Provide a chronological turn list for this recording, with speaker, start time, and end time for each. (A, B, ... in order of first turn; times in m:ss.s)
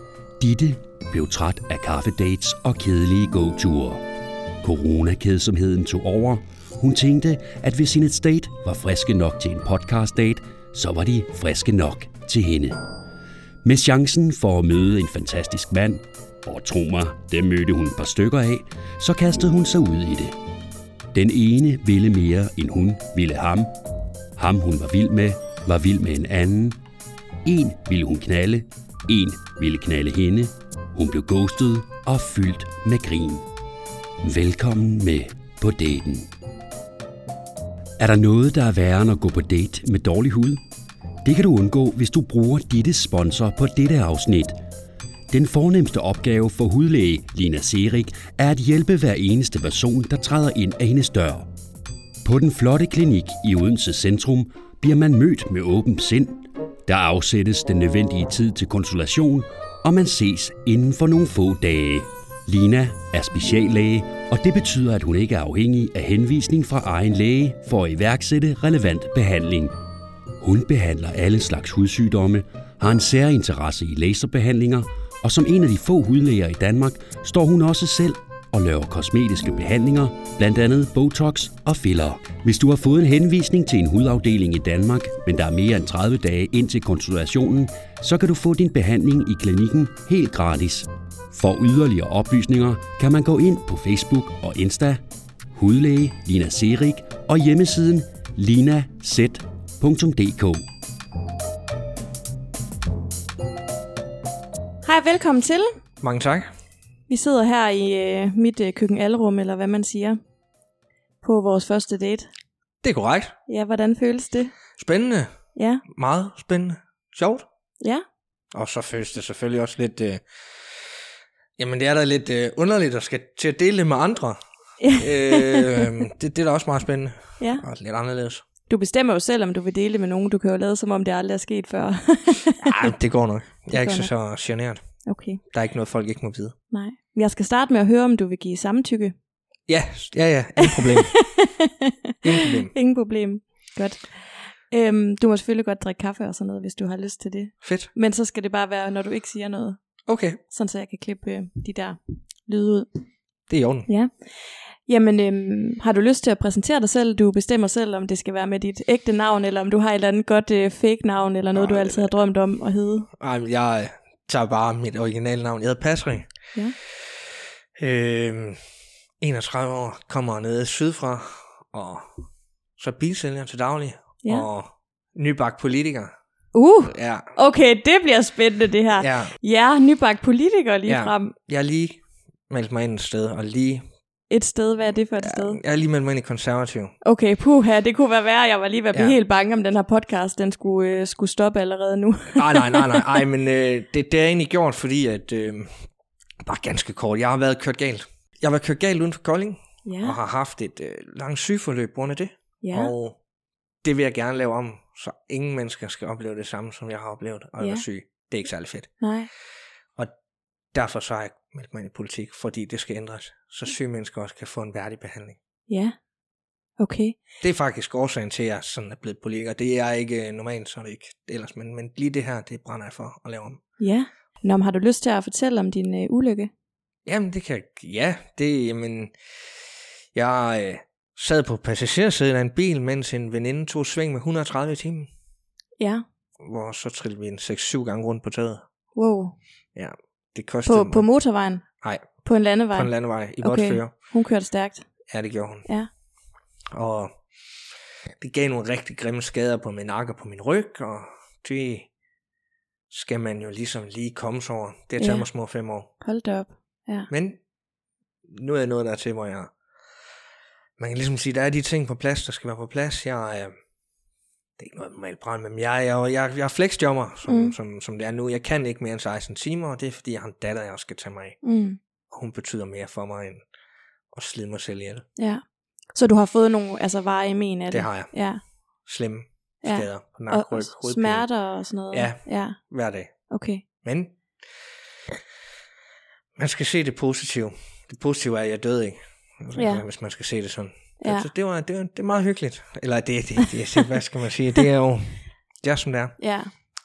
0:00.4-0:04.0 A
0:04.6-0:12.8 A
0:13.6-0:20.4 A
0:21.1-0:23.7 A
0:24.4-0:26.8 A
0:27.4-0:33.4 A
0:34.2-0:36.3 A
0:38.0-0:40.6 A
0:41.2-0:44.6 A
0:45.3-0:51.5 A
0:52.2-1:09.7 A
1:10.4-1:35.0 A
1:35.5-1:40.6 A
1:44.8-1:45.7 B
1:46.0-1:46.5 C
1:47.1-1:50.2 B
1:51.2-1:52.3 B
1:52.8-1:53.4 C
1:53.5-1:54.5 B
1:54.8-1:55.4 C
1:55.6-1:55.8 B
1:55.9-1:57.5 C
1:58.5-2:00.9 C
2:01.6-2:04.4 C
2:04.8-2:05.9 B
2:05.0-2:08.4 C
2:08.7-2:12.9 B
2:12.6-2:16.6 C
2:13.7-2:14.1 B
2:15.1-2:15.4 B
2:16.7-2:19.2 B
2:19.7-2:21.2 C
2:20.6-2:21.9 B
2:22.2-2:22.7 C
2:22.4-2:33.0 B
2:27.6-2:27.9 C
2:30.1-2:30.4 C
2:33.5-2:33.9 C
2:33.9-2:43.1 B
2:41.5-2:42.1 C
2:43.2-2:46.3 C
2:47.8-2:48.6 C
2:49.2-2:52.2 C
2:52.8-2:56.2 C
2:56.5-3:01.3 B
2:56.9-2:57.3 C
2:59.0-2:59.4 C
3:00.9-3:03.8 C
3:04.3-3:05.6 B
3:05.2-3:07.0 C
3:07.0-3:13.1 B
3:12.4-3:15.9 C
3:16.4-3:23.2 C
3:19.8-3:20.2 B
3:22.6-3:22.9 B
3:23.8-3:29.0 C
3:27.6-3:27.8 B
3:29.0-3:29.3 B
3:30.7-3:35.4 C
3:35.7-3:36.0 B
3:36.8-3:37.2 B
3:37.4-3:43.6 C
3:43.8-3:46.5 B
3:47.1-3:49.2 C
3:50.1-3:55.1 C
3:55.8-3:56.0 B
3:56.4-3:58.7 C
3:59.0-3:59.4 B
3:59.8-4:01.1 C
4:00.7-4:04.9 B
4:01.8-4:04.0 C
4:05.1-4:05.7 C
4:06.7-4:07.3 C
4:08.2-4:11.9 C
4:12.9-4:15.9 C
4:15.0-4:15.3 B
4:16.0-4:17.1 B
4:17.1-4:17.4 C
4:18.3-4:19.5 C
4:20.8-4:23.6 C
4:24.6-4:31.4 C
4:27.3-4:27.5 B
4:31.4-4:31.8 B
4:32.1-4:33.5 C
4:34.1-4:35.1 C
4:35.2-4:38.4 B
4:37.7-4:38.2 C
4:38.8-4:41.3 C
4:39.6-4:42.6 B
4:41.9-4:43.1 C
4:43.3-4:43.6 B
4:43.8-4:44.6 C
4:46.4-4:56.2 C
4:49.6-4:49.8 B
4:51.0-4:51.3 B
4:56.2-4:56.5 B